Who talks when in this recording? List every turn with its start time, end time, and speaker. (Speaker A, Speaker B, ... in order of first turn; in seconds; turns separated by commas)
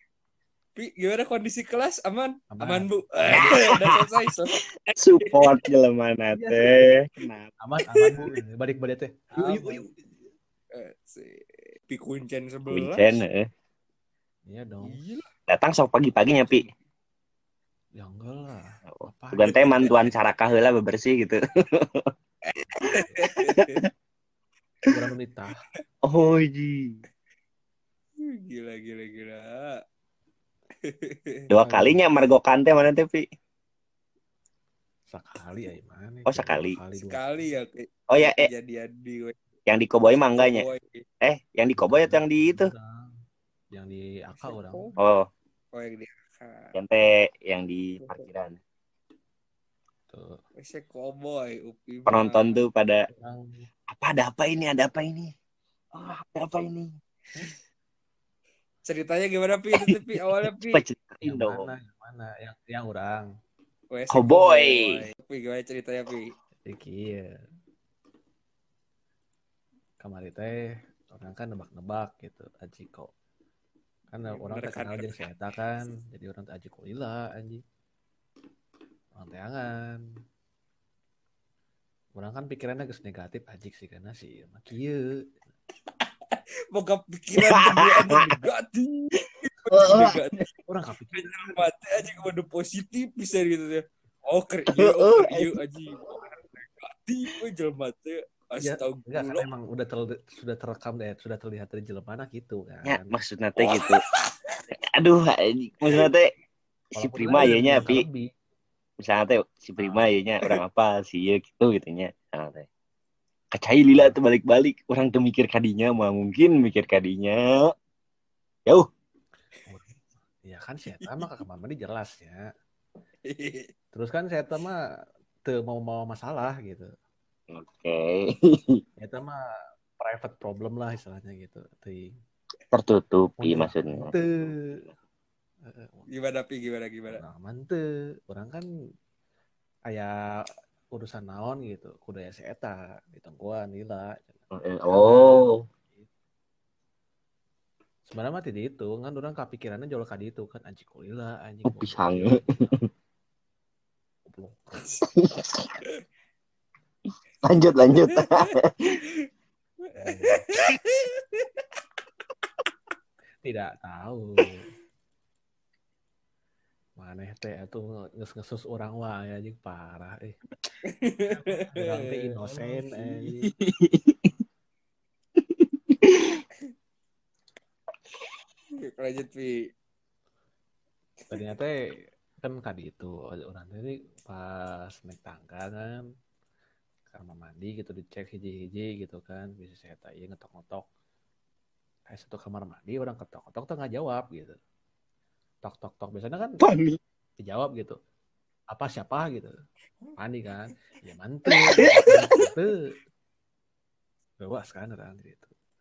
Speaker A: 0.8-4.7, Speaker B: 2.5-3.6, Speaker C: 3.3-4.2, Speaker C: 4.9-7.5, Speaker A: 5.2-5.6, Speaker B: 6.3-7.0, Speaker B: 7.6-9.9, Speaker A: 7.9-8.3, Speaker A: 9.3-9.9, Speaker A: 10.7-13.2, Speaker C: 12.7-13.5, Speaker B: 14.5-15.0, Speaker A: 14.8-15.3, Speaker C: 15.5-16.6, Speaker B: 18.0-20.2, Speaker C: 18.9-22.1, Speaker A: 22.5-23.8, Speaker B: 22.8-23.2, Speaker C: 22.8-23.9, Speaker B: 24.9-25.6, Speaker C: 26.0-27.0, Speaker A: 28.2-29.8, Speaker A: 30.8-31.5, Speaker C: 31.5-33.2, Speaker B: 31.6-32.0, Speaker B: 35.1-37.5, Speaker C: 36.2-36.8, Speaker A: 37.0-39.4, Speaker C: 38.1-38.5, Speaker C: 39.7-40.6, Speaker A: 40.3-41.0, Speaker C: 41.2-42.7, Speaker B: 41.7-43.2, Speaker B: 43.7-44.9, Speaker A: 44.4-45.0, Speaker C: 45.0-45.3, Speaker A: 45.7-46.7, Speaker C: 46.7-48.6, Speaker B: 50.1-50.4, Speaker A: 50.6-52.6, Speaker C: 52.1-53.0, Speaker B: 53.1-53.6, Speaker C: 53.9-55.3, Speaker C: 55.9-57.5, Speaker A: 58.9-60.8, Speaker C: 59.7-61.7, Speaker B: 61.2-63.3, Speaker A: 63.9-66.3, Speaker C: 64.1-65.0, Speaker B: 66.6-67.3, Speaker B: 70.0-73.1, Speaker B: 74.1-77.6, Speaker A: 74.2-75.3, Speaker B: 79.1-80.0, Speaker B: 82.2-85.2, Speaker A: 86.3-90.5, Speaker C: 87.3-88.4, Speaker C: 89.7-90.2, Speaker B: 90.7-91.7, Speaker A: 91.1-99.5, Speaker C: 94.7-95.6, Speaker B: 98.6-103.2, Speaker C: 102.8-104.0, Speaker A: 103.6-104.0, Speaker C: 104.7-106.3, Speaker B: 106.9-108.3, Speaker C: 107.0-108.0, Speaker C: 109.0-112.7, Speaker B: 109.8-110.1, Speaker C: 113.5-117.7, Speaker B: 113.9-114.2, Speaker B: 119.7-119.9, Speaker B: 120.4-122.4, Speaker A: 123.2-123.7, Speaker B: 123.9-124.8, Speaker B: 125.4-126.9, Speaker C: 127.5-128.8, Speaker B: 129.0-129.4, Speaker B: 130.0-132.2, Speaker C: 132.7-134.1, Speaker B: 133.4-134.5, Speaker B: 135.6-136.1, Speaker A: 136.1-137.2, Speaker B: 137.1-138.7, Speaker B: 140.9-146.1, Speaker C: 144.5-145.6, Speaker B: 148.1-152.7, Speaker C: 151.7-152.9, Speaker B: 154.3-154.9, Speaker C: 155.1-155.7, Speaker C: 157.4-159.0, Speaker A: 158.1-158.6, Speaker A: 159.8-161.6, Speaker B: 159.9-160.5, Speaker B: 163.4-164.6, Speaker B: 167.0-170.4, Speaker A: 170.9-173.2, Speaker B: 171.3-173.5, Speaker C: 173.6-174.3, Speaker C: 175.4-176.4, Speaker A: 178.8-179.6, Speaker B: 181.3-181.8, Speaker B: 182.4-186.0, Speaker B: 187.1-190.8, Speaker B: 192.1-194.6, Speaker B: 195.6-196.6, Speaker C: 196.6-197.0, Speaker B: 197.4-198.0, Speaker B: 198.7-199.5, Speaker B: 200.2-202.9, Speaker C: 201.5-202.4, Speaker B: 204.4-205.5